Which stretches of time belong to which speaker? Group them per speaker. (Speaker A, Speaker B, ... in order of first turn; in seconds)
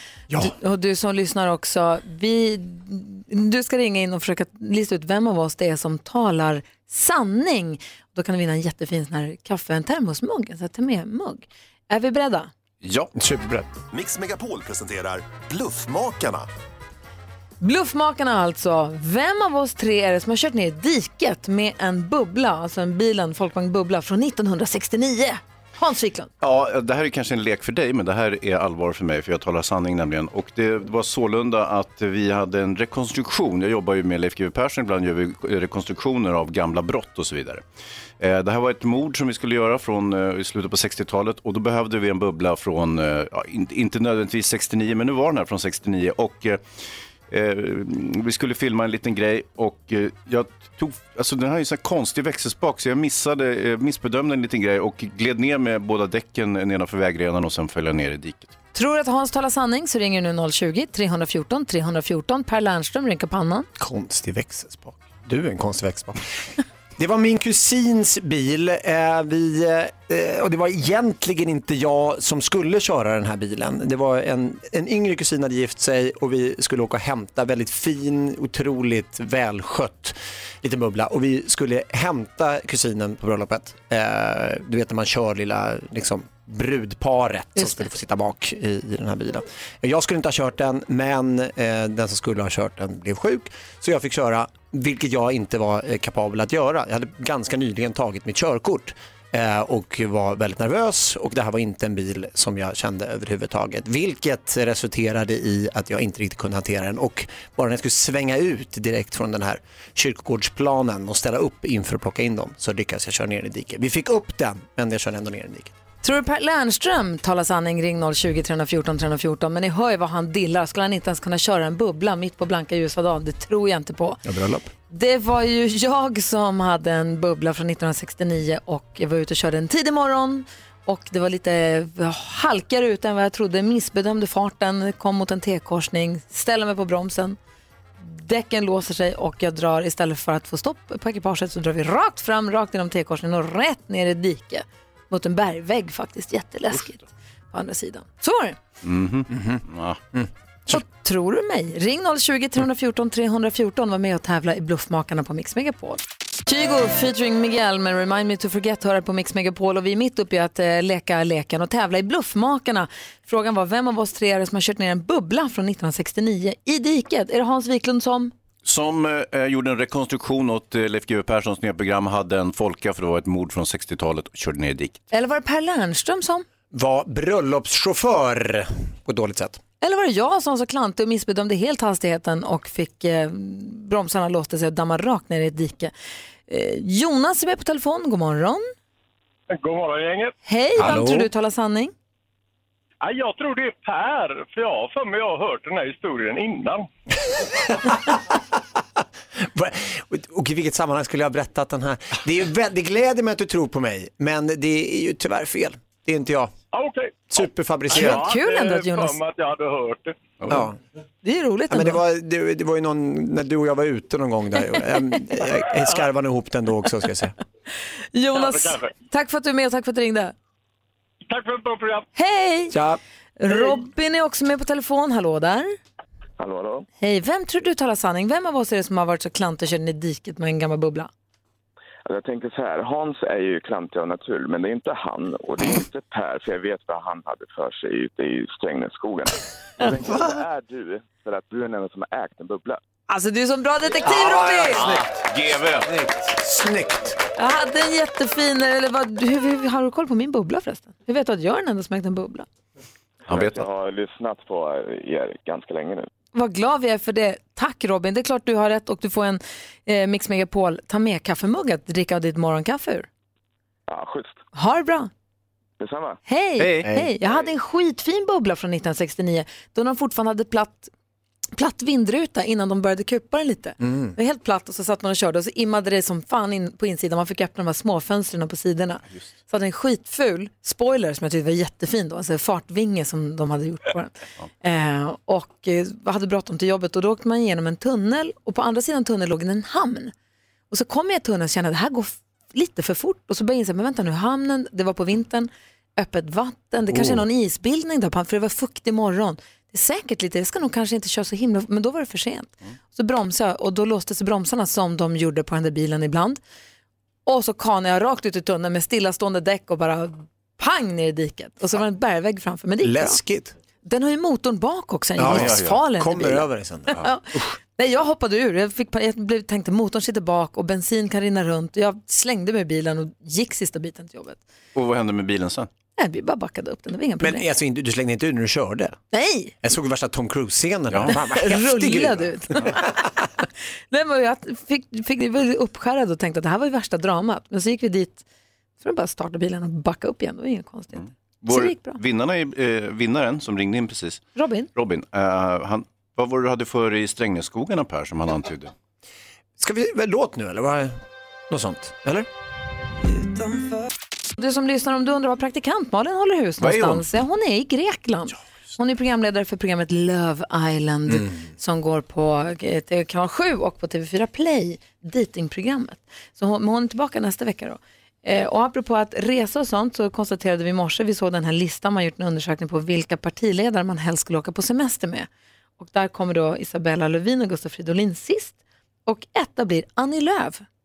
Speaker A: 0.4-12.5, 17.6-26.3, 58.7-63.7, 87.6-87.9, 116.0-124.2, 124.9-137.4, 138.0-148.6, 150.7-168.3, 175.1-176.4, 179.8-185.9, 186.5-188.7, 190.4-191.9, 207.9-209.2, 211.2-212.0, 218.1-220.3, 222.1-222.8, 223.4-225.8, 227.0-231.1, 243.1-244.9, 247.4-252.4, 256.3-263.1, 264.5-265.1, 266.3-270.9, 271.5-290.1, 290.7-306.4, 307.2-313.2, 313.8-324.4, 326.0-327.5, 329.1-329.5, 331.1-333.0, 333.9-338.2, 338.8-342.0, 344.3-344.7, 354.4-375.3, 375.8-380.6
Speaker B: 12.8-13.1, 26.4-37.6, 38.2-46.6, 47.3-58.5, 148.8-150.0, 168.6-175.0, 244.4-245.9, 253.3-253.7, 266.6-266.9, 315.2-315.8, 324.7-325.7, 340.9-344.2, 344.7-348.7, 356.6-357.1
Speaker C: 13.1-13.7, 63.8-66.2, 67.0-115.7, 124.2-124.7, 149.3-150.8, 176.7-179.6, 190.8-191.2, 199.4-206.5, 207.3-208.2, 210.5-210.8, 211.7-217.3, 222.7-223.0, 244.0-245.0, 245.9-247.2, 273.8-274.1, 296.9-297.2, 312.8-313.5, 315.2-317.0, 327.2-329.0, 329.6-332.8, 349.6-352.3, 353.1-353.6
Speaker D: 13.9-16.5
Speaker E: 189.5-190.3, 193.0-196.8, 206.7-207.3, 207.9-210.1, 218.4-218.9, 221.3-222.0
Speaker F: 226.4-226.9, 232.1-242.8, 253.3-256.1, 263.9-264.3, 265.8-266.2